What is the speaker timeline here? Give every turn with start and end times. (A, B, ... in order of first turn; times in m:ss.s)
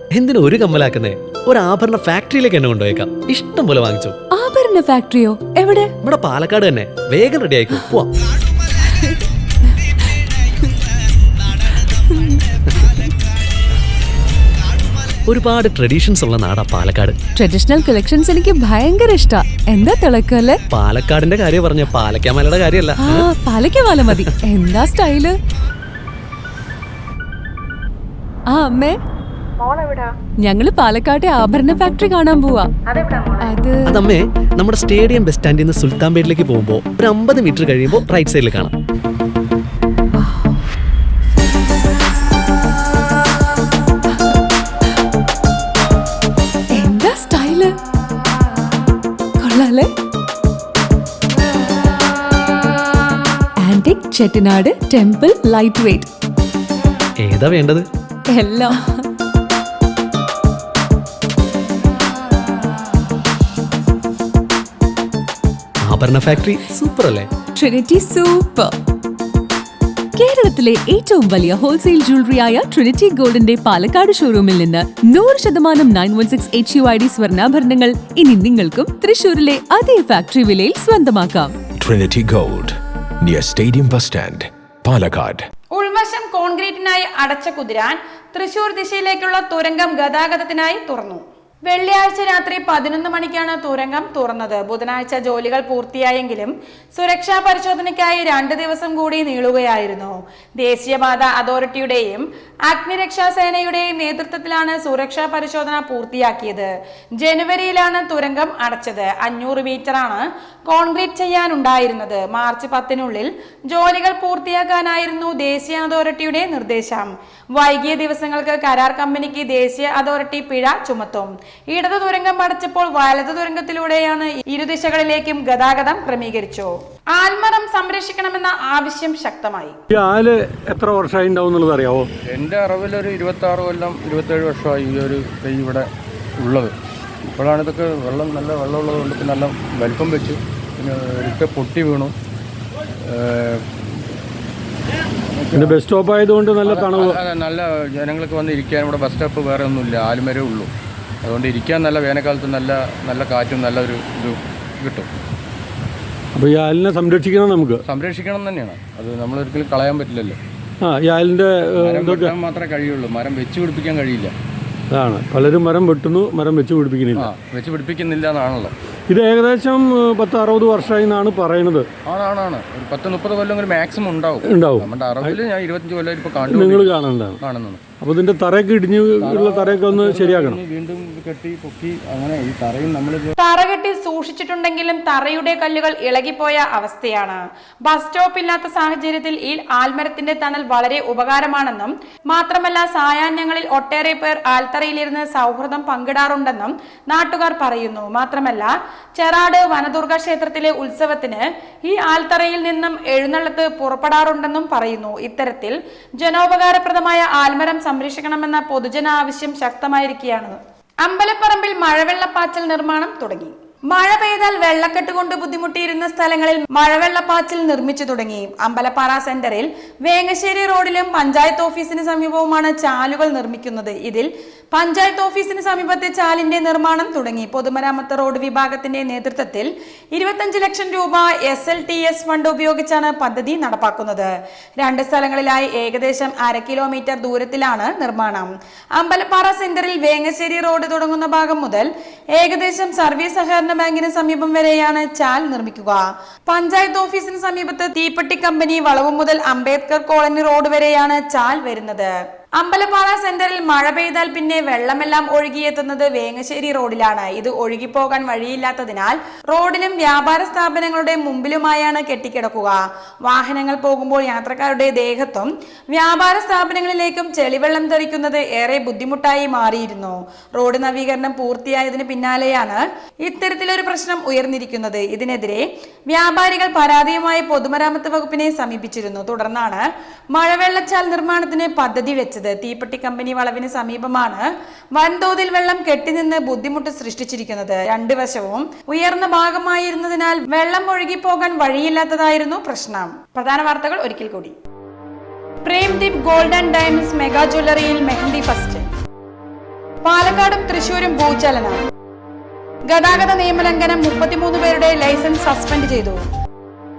0:00.1-0:04.2 A
0:04.3-0:05.9 B
0:06.0-0:08.1 A
0:15.3-0:17.2 A
0:17.4-0:20.6 B
0:20.7-0:23.3 A
0:23.0-0:25.4 B
0:28.5-0:29.0 B
0:29.6-0:30.1 C
0:30.4-0:32.7 B
0:32.9-0:33.6 C
0:33.4-0:33.9 B
0:33.9-0:38.7 A
0:46.7-0:47.7 B
0:49.4-0:49.9 B
0:53.6-0:56.1 B
0:57.2-0:57.8 A
0:58.3-0:59.1 B
1:05.8-1:07.3 A
1:07.6-1:08.7 B
1:10.2-1:21.5 B
1:21.8-1:25.5 D
1:25.8-2:09.8 C
2:09.9-2:12.1 E
2:12.3-2:15.8 F
2:16.4-2:16.7 F
2:17.4-2:22.1 F
2:23.1-2:23.6 F
2:25.5-2:25.7 F
2:25.5-2:27.2 E
2:26.7-2:30.7 F
2:31.3-2:35.1 F
2:36.4-2:37.8 E
2:37.9-2:40.4 F
2:40.8-2:42.4 E
2:41.9-2:44.3 F
2:44.9-2:47.3 E
2:47.2-2:48.7 F
2:49.1-2:51.9 E
2:52.1-2:56.9 F
2:54.4-2:55.4 E
2:56.5-2:57.4 E
2:57.4-2:57.8 F
2:58.0-3:00.6 E
2:59.3-3:03.3 F
3:03.4-3:54.3 C
3:54.8-4:54.6 C
4:55.6-4:58.9 C
5:00.0-5:01.8 C
5:02.9-5:06.2 C